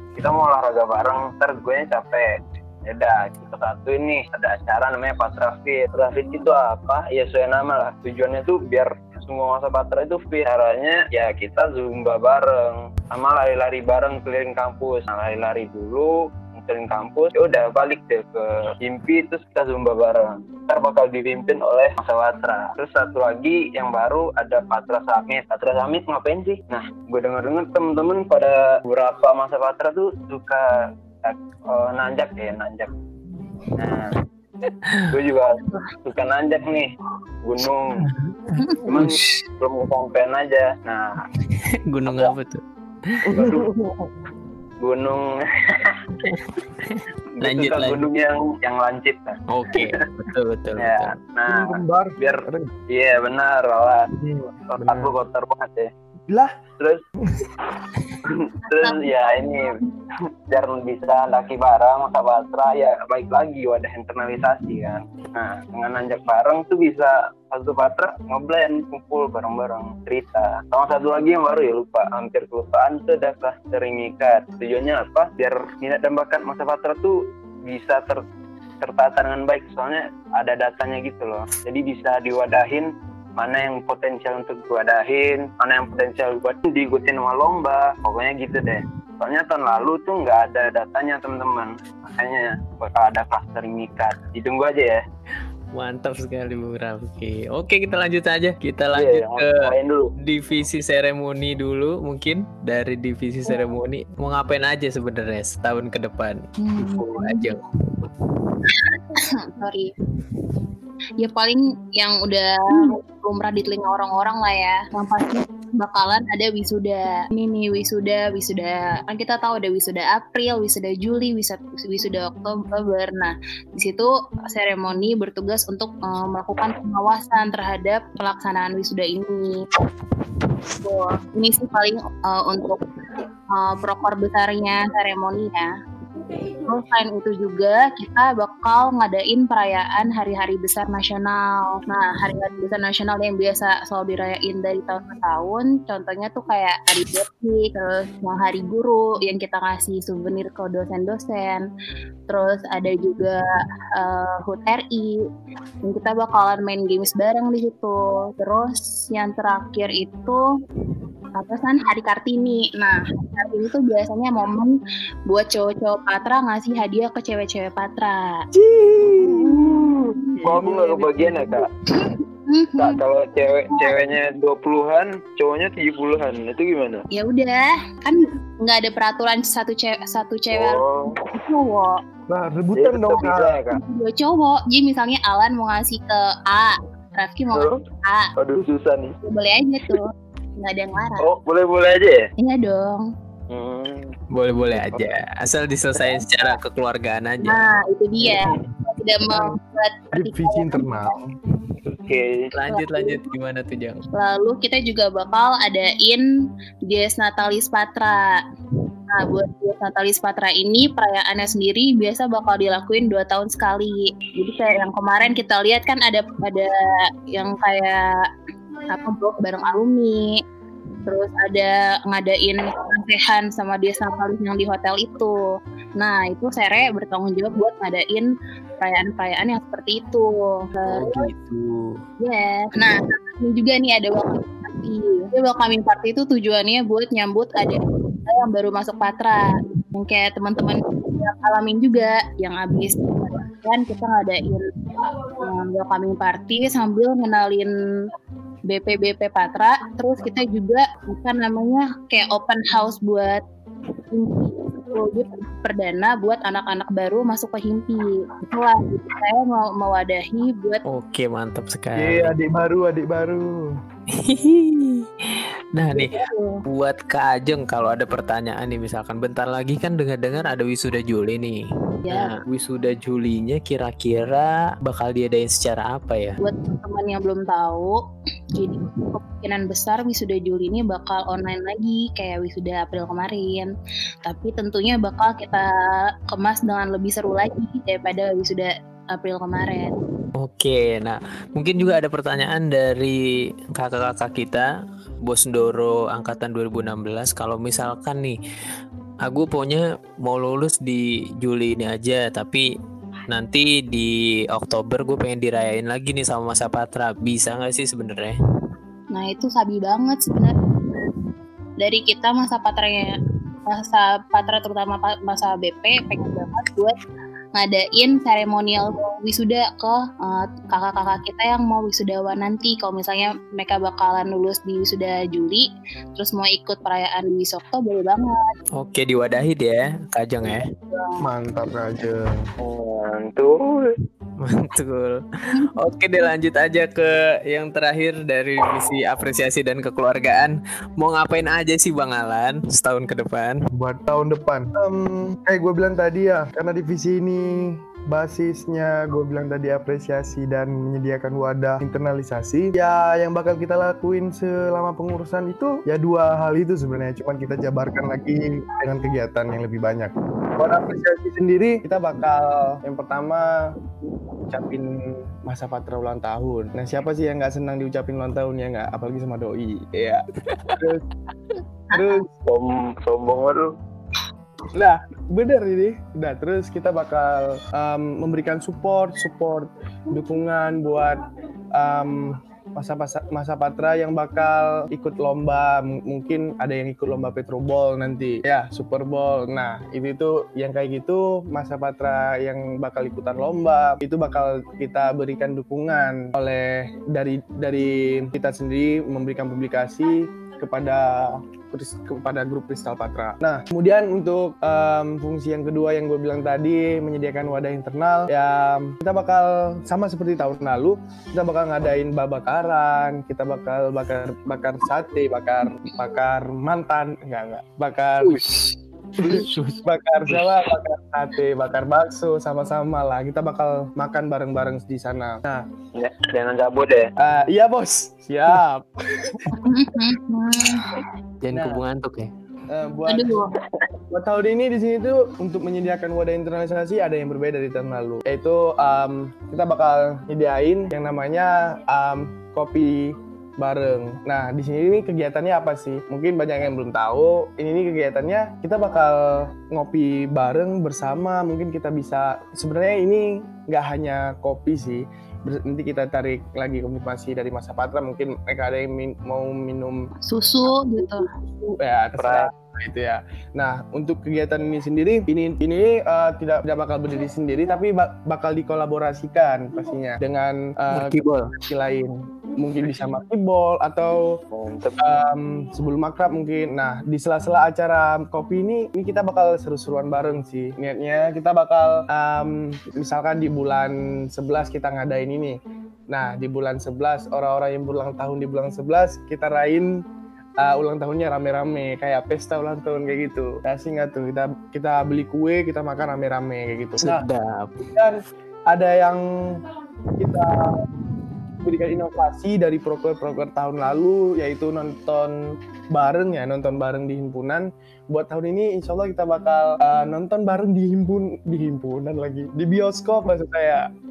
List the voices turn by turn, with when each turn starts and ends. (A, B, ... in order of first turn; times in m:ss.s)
0:00.2-0:32.9 A
0:33.7-0:34.2 B
0:33.8-0:34.1 A
0:35.1-0:38.1 A
0:38.0-0:39.4 B
0:38.8-0:41.2 A
0:41.4-0:43.3 B
0:42.1-0:42.3 A
0:43.2-0:44.1 C
0:43.3-0:43.7 A
0:44.8-0:46.0 A
0:46.2-0:48.1 B
0:47.4-0:50.0 A
0:49.5-0:51.1 B
0:50.8-0:54.1 A
0:51.4-0:52.7 C
0:54.2-0:55.1 C
0:54.7-0:55.9 A
0:56.3-0:56.6 C
0:56.8-0:57.0 A
0:57.2-0:57.5 C
0:58.2-0:59.8 A
0:58.7-0:59.0 D
1:00.5-1:18.2 A
1:18.8-1:35.0 A
1:35.7-1:47.6 B
1:38.9-1:40.1 A
1:46.6-1:47.6 D
1:48.7-1:49.9 D
1:51.2-2:09.7 D
2:10.8-2:12.8 D
2:13.5-2:15.7 D
2:16.6-2:31.6 D
2:32.3-2:33.4 D
2:34.0-2:35.2 D
2:35.8-2:40.4 D
2:41.4-2:44.8 D
2:45.3-2:48.4 D
2:48.5-2:49.6 C
2:49.2-2:51.7 A
2:50.4-2:51.7 C
2:52.0-2:53.0 D
2:52.8-2:57.0 A
2:53.7-2:54.0 D
2:57.1-3:02.0 D
3:00.5-3:01.2 A
3:02.3-3:03.6 C
3:02.7-3:03.8 A
3:03.7-3:08.3 D
3:07.5-3:07.8 A
3:08.4-3:09.2 A
3:09.2-3:11.2 D
3:11.2-3:12.3 A
3:12.4-3:13.1 D
3:13.5-3:14.1 A
3:14.3-3:17.7 B
3:14.7-3:15.1 C
3:16.0-3:16.2 D
3:17.4-3:21.1 D
3:19.3-3:19.6 C
3:20.1-3:21.3 C
3:21.8-3:22.5 A
3:22.5-3:24.0 B
3:22.7-3:23.3 D
3:24.1-3:26.2 D
3:26.9-3:28.4 D
3:29.1-3:36.7 D
3:37.3-3:38.2 D
3:38.9-3:40.4 D
3:41.1-3:45.4 D
3:46.0-3:51.3 D
3:50.8-3:52.0 B
3:52.2-4:04.7 D
4:05.3-4:07.7 D
4:08.7-4:13.4 D
4:14.1-4:20.8 D
4:20.8-4:22.3 B
4:22.0-4:23.7 C
4:24.1-4:26.1 B
4:25.9-4:26.6 D
4:26.7-4:36.4 B
4:32.1-4:32.4 D
4:36.4-4:38.0 D
4:38.5-4:43.7 D
4:44.2-4:45.7 D
4:46.3-4:49.9 D
4:50.4-4:54.7 B
4:55.2-4:58.4 B
4:59.2-5:02.6 B
5:03.3-5:08.4 B
5:09.1-5:11.1 D
5:11.8-5:17.0 D
5:17.6-5:28.4 D
5:28.7-5:30.7 B
5:30.5-5:31.2 D
5:31.2-5:32.4 C
5:32.6-5:33.9 A
5:34.4-5:43.6 B
5:43.7-6:03.7 C
6:04.5-6:10.2 C
6:10.5-6:10.8 B
6:10.8-6:11.0 C
6:11.9-6:12.3 C
6:11.9-6:12.2 D
6:12.4-6:13.7 A
6:14.7-6:21.2 C
6:21.7-6:58.4 C
6:58.2-6:59.8 B
6:59.2-7:05.6 C
7:05.9-7:07.1 A
7:07.2-7:09.6 C
7:09.5-7:11.0 D
7:11.4-7:12.3 B
7:11.5-7:11.8 C
7:12.7-7:13.3 C
7:13.1-7:13.5 D
7:14.1-7:40.1 C
7:40.2-7:41.3 D
7:41.0-7:54.4 C
7:42.2-7:42.5 A
7:50.9-7:51.5 B
7:54.5-7:55.0 A
7:55.0-8:10.0 C
8:10.6-8:17.2 C
8:17.0-8:17.9 B
8:17.9-8:19.6 C
8:20.2-8:20.8 C
8:21.6-8:25.4 C
8:25.9-8:33.9 C